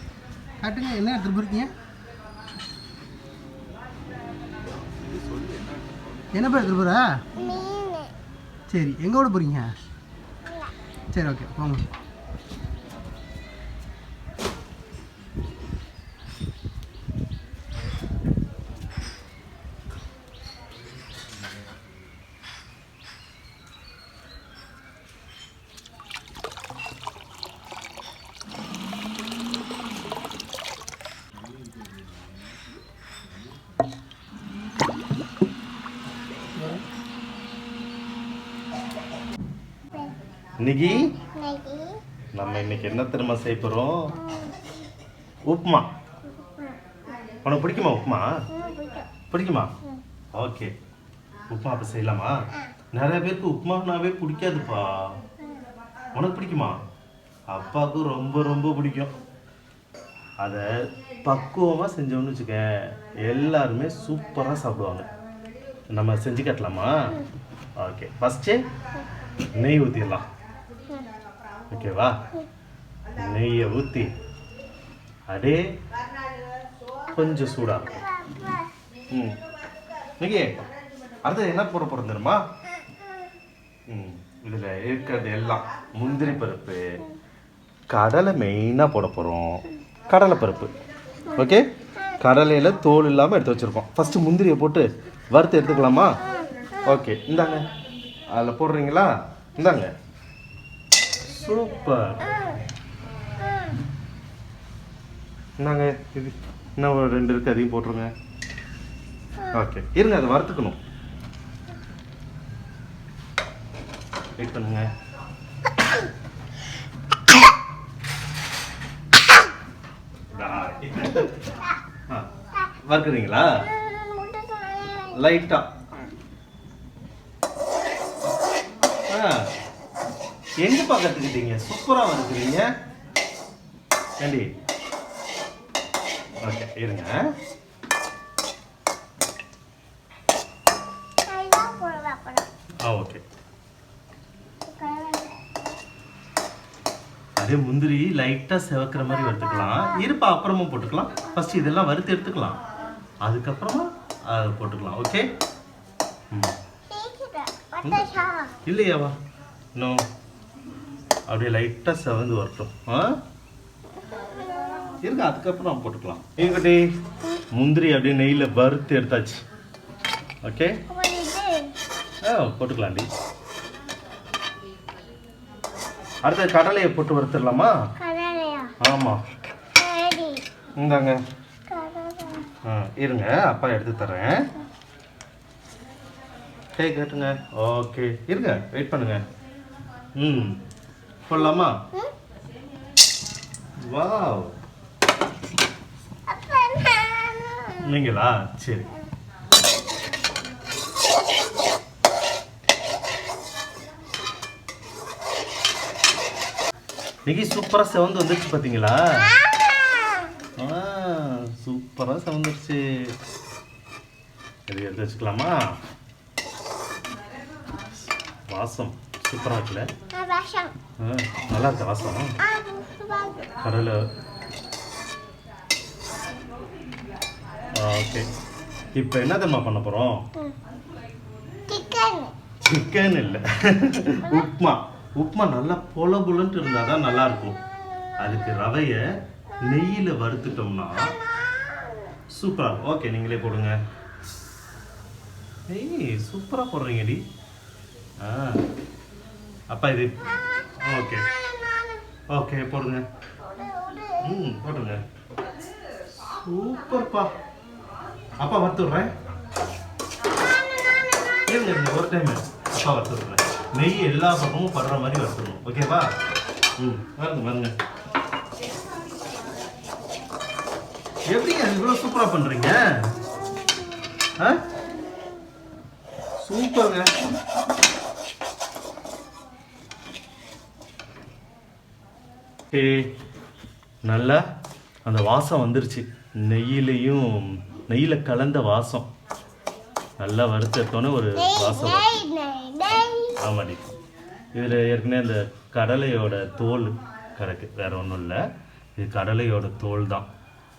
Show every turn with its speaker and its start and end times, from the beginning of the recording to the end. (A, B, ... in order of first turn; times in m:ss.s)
0:00.6-0:01.7 A
0:04.9-0:06.6 B
0:06.3-0:07.2 A
0:07.4-0:08.1 C
0:08.7-0:09.7 A
0:10.4-0:10.7 C
0:11.1-0:11.8 A
0:39.9-0:40.2 C
0:40.6-0:41.0 B
0:41.2-0:42.0 C
0:42.3-0:44.1 B
0:44.2-0:44.6 C
0:45.5-0:45.8 B
0:46.3-0:46.8 C
0:47.4-0:48.3 B
0:48.5-0:49.1 C
0:49.3-0:49.7 B
0:50.3-0:50.7 B
0:51.5-0:52.4 B
0:52.9-0:55.2 B
0:55.4-0:55.7 C
0:56.1-0:56.8 B
0:57.5-0:59.1 B
1:01.2-1:05.1 B
1:05.9-1:07.1 B
1:07.8-1:08.6 B
1:09.5-1:10.2 B
1:11.7-1:12.2 B
1:13.1-1:14.1 B
1:15.3-1:15.7 B
1:17.1-1:18.0 B
1:17.7-1:18.7 C
1:19.1-1:19.4 B
1:20.2-1:20.6 B
1:21.2-1:22.4 B
1:23.9-1:26.8 B
1:27.9-1:30.7 B
1:31.3-1:32.4 C
1:31.4-1:31.6 B
1:32.2-1:36.2 B
1:36.2-1:36.8 C
1:36.8-1:37.6 B
1:38.3-1:39.9 B
1:41.2-1:42.3 B
1:42.2-1:42.6 C
1:43.4-1:43.8 C
1:45.6-1:48.1 B
1:49.5-1:50.8 B
1:54.4-1:54.9 B
2:00.3-2:01.3 B
2:01.3-2:01.7 C
2:02.8-2:03.5 B
2:03.4-2:05.4 C
2:05.1-2:05.7 B
2:09.1-2:09.5 B
2:10.6-2:12.7 B
2:14.2-2:14.5 B
2:16.4-2:17.1 B
2:21.3-2:22.5 C
2:22.8-2:23.2 B
2:24.7-2:25.7 C
2:27.4-2:32.6 B
2:29.0-2:30.1 C
2:31.2-2:31.7 C
2:33.2-2:35.2 B
2:36.9-2:38.6 C
2:38.6-2:39.2 B
2:39.7-2:40.0 B
2:41.3-2:43.1 B
2:44.0-2:45.0 C
2:45.0-2:46.9 B
2:47.5-2:49.4 B
2:50.4-2:50.8 B
2:50.9-2:51.7 C
2:52.2-2:53.1 B
2:56.2-2:57.7 B
2:58.0-2:58.7 C
2:58.8-2:59.2 B
2:59.8-3:00.4 C
3:00.8-3:01.2 B
3:01.7-3:02.5 C
3:02.6-3:04.4 B
3:06.8-3:09.2 B
3:10.1-3:10.6 B
3:11.3-3:11.8 B
3:11.3-3:12.1 C
3:13.9-3:14.5 B
3:16.3-3:18.0 C
3:17.8-3:18.9 B
3:27.2-3:29.3 B
3:29.5-3:30.3 C
3:30.6-3:32.8 B
3:34.7-3:35.6 B
3:38.5-3:39.9 B
3:40.1-3:40.7 C
3:41.0-3:42.4 B
3:42.4-3:43.6 C
3:43.6-3:44.0 B
3:47.7-3:48.3 B
3:48.9-3:50.2 B
3:51.7-3:52.3 C
3:52.6-3:57.6 B
3:54.2-3:54.5 C
3:58.2-3:59.0 B
3:59.6-4:01.2 B
4:01.5-4:02.0 C
4:02.3-4:03.8 B
4:05.7-4:07.2 B
4:08.2-4:08.6 B
4:09.7-4:11.3 B
4:10.3-4:12.0 C
4:12.3-4:13.0 B
4:13.4-4:14.4 C
4:14.2-4:15.0 B
4:16.2-4:17.3 B
4:18.4-4:19.1 B
4:20.3-4:21.6 C
4:21.5-4:26.1 B
4:26.8-4:27.7 B
4:31.3-4:33.1 B
4:36.4-4:37.1 B
4:42.7-4:43.1 B
4:44.1-4:44.4 B
4:45.0-4:49.1 B
4:50.2-4:52.2 B
4:51.3-4:53.4 C
4:53.4-4:53.9 B
4:54.5-4:58.4 B
4:59.0-5:00.3 B